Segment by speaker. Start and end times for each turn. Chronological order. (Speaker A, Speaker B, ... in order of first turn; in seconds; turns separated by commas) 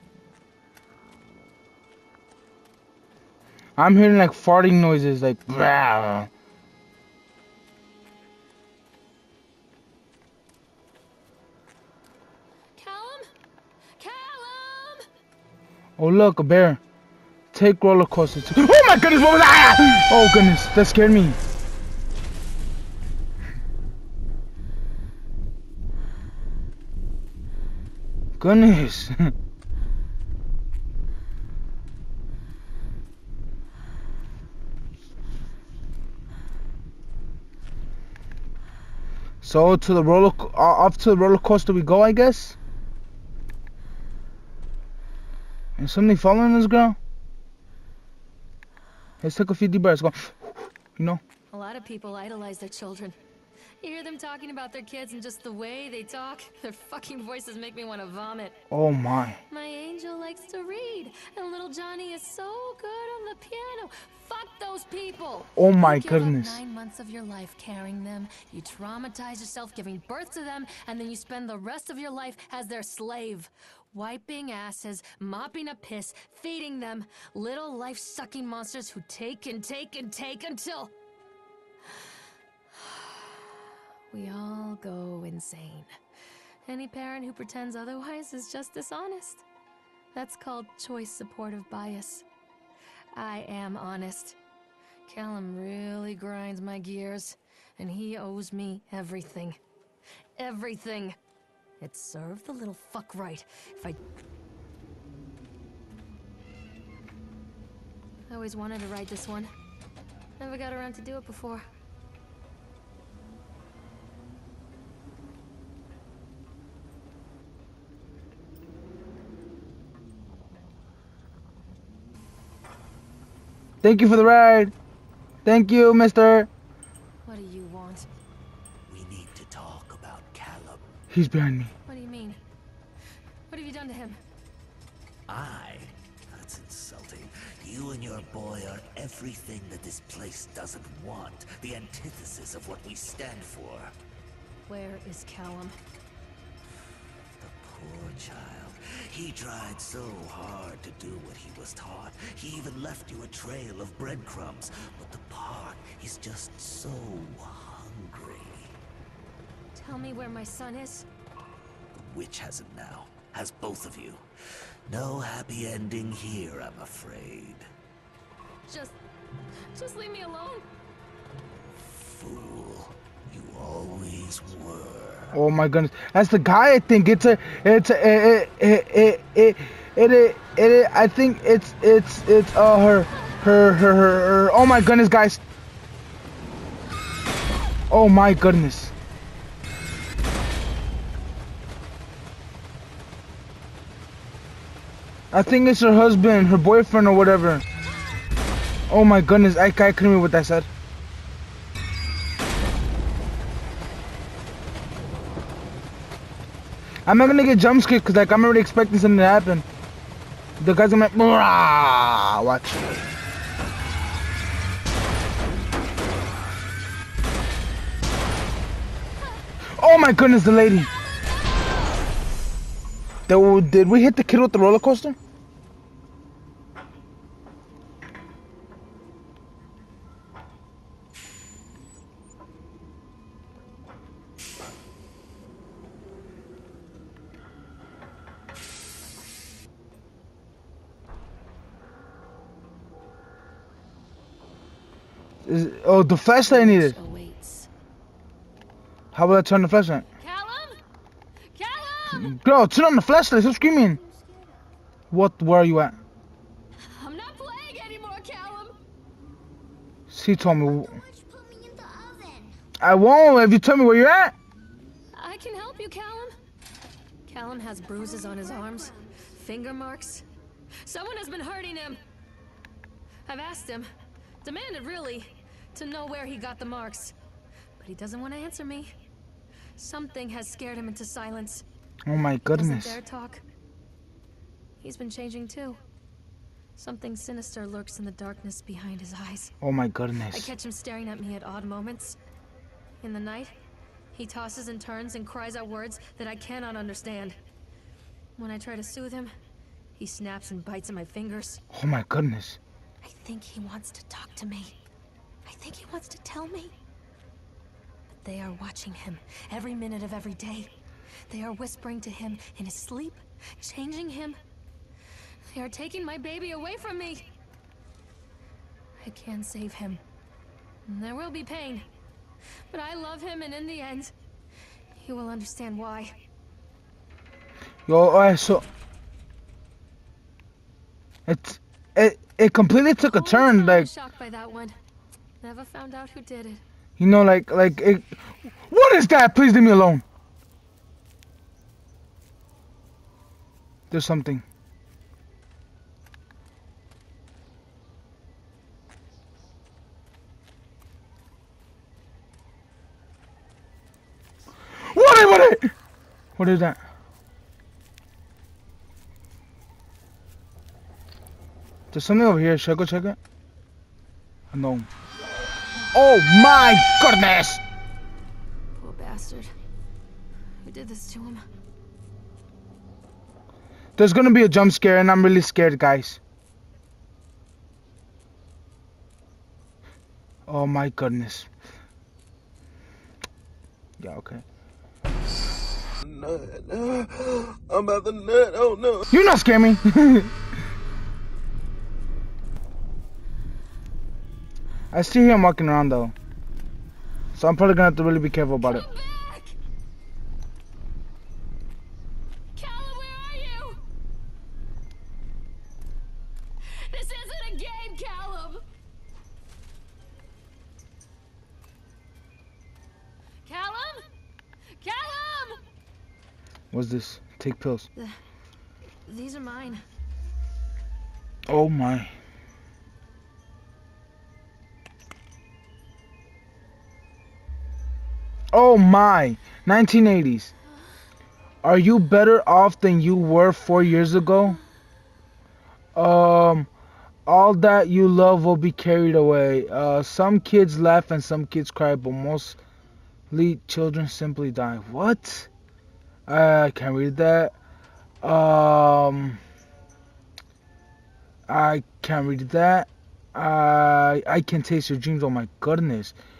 Speaker A: 3.8-6.3, Speaker B: 12.8-13.3, Speaker B: 14.0-15.1, Speaker A: 16.0-16.8, Speaker A: 17.5-21.4, Speaker A: 28.4-29.3, Speaker A: 39.4-42.5, Speaker A: 45.8-47.0, Speaker A: 49.2-50.3, Speaker A: 51.0-51.2, Speaker B: 51.5-53.1, Speaker B: 53.8-58.6, Speaker A: 58.7-59.4, Speaker B: 59.5-80.9, Speaker A: 65.6-66.6, Speaker B: 82.7-83.5, Speaker B: 84.1-85.9, Speaker B: 86.7-89.4, Speaker B: 90.1-92.2, Speaker B: 93.1-94.4, Speaker B: 95.0-99.6, Speaker B: 100.4-101.2, Speaker B: 101.8-104.0, Speaker B: 108.3-109.5, Speaker B: 110.4-111.6, Speaker A: 123.8-124.7, Speaker A: 125.4-126.5, Speaker B: 127.2-128.1, Speaker C: 128.9-130.8, Speaker A: 131.1-131.7, Speaker B: 131.8-132.4, Speaker B: 133.5-134.2, Speaker C: 135.3-143.9, Speaker B: 144.7-145.8, Speaker C: 147.4-158.8, Speaker B: 159.7-161.1, Speaker C: 162.0-164.2, Speaker C: 164.9-167.7, Speaker B: 168.7-168.9, Speaker B: 169.7-170.7, Speaker C: 171.8-175.3, Speaker A: 175.3-185.4, Speaker A: 187.9-188.9, Speaker A: 195.3-197.6, Speaker A: 198.9-200.7, Speaker A: 207.1-209.7, Speaker A: 210.6-213.0, Speaker A: 219.7-220.9, Speaker B: 221.0-222.0, Speaker A: 223.3-225.2, Speaker A: 245.4-247.0, Speaker B: 246.4-247.7, Speaker A: 249.1-250.1, Speaker B: 250.2-250.8, Speaker B: 251.5-252.3, Speaker A: 252.1-254.0, Speaker D: 253.9-254.6, Speaker A: 255.1-256.0, Speaker B: 256.9-258.8, Speaker A: 260.1-261.0, Speaker D: 260.5-262.6, Speaker A: 262.8-264.3, Speaker B: 265.1-266.3, Speaker B: 267.3-270.2, Speaker D: 268.0-269.2, Speaker B: 270.8-272.0, Speaker B: 273.2-273.9, Speaker B: 274.4-277.1, Speaker B: 277.8-278.9, Speaker B: 279.8-281.6, Speaker A: 282.0-283.0, Speaker B: 282.5-283.4, Speaker B: 284.8-285.8, Speaker B: 286.8-289.5, Speaker A: 289.6-290.5, Speaker B: 290.3-292.2, Speaker B: 293.0-293.5, Speaker B: 294.1-297.4, Speaker B: 298.4-299.3, Speaker B: 299.9-301.6, Speaker A: 301.7-302.6, Speaker B: 303.0-304.8, Speaker B: 305.4-306.7, Speaker B: 308.1-310.7, Speaker B: 311.3-314.4, Speaker B: 315.5-317.3, Speaker B: 319.0-320.0, Speaker B: 320.9-321.9, Speaker B: 322.7-324.1, Speaker B: 324.9-326.1, Speaker A: 327.9-328.6, Speaker A: 331.2-333.9, Speaker B: 333.0-334.8, Speaker B: 335.4-336.6, Speaker A: 337.0-340.0, Speaker A: 343.9-344.4, Speaker A: 354.8-355.7, Speaker A: 356.4-356.8, Speaker A: 361.9-363.2, Speaker A: 364.5-364.9, Speaker A: 365.9-367.6, Speaker B: 368.7-369.5, Speaker B: 370.6-371.4, Speaker A: 374.0-376.2, Speaker A: 380.5-381.5, Speaker A: 384.0-384.4, Speaker E: 386.0-389.1, Speaker A: 389.1-390.3, Speaker A: 394.9-396.1, Speaker A: 397.3-398.9, Speaker B: 398.6-399.6, Speaker B: 402.6-403.8, Speaker B: 406.7-408.6, Speaker B: 413.4-414.0, Speaker B: 414.8-415.6, Speaker A: 416.7-417.9, Speaker B: 419.1-419.8, Speaker A: 421.5-422.1, Speaker A: 428.5-430.5, Speaker A: 431.6-434.6, Speaker A: 435.9-436.7, Speaker A: 437.2-442.6, Speaker A: 443.3-445.5, Speaker A: 446.3-447.5, Speaker A: 448.2-449.4, Speaker A: 451.5-456.1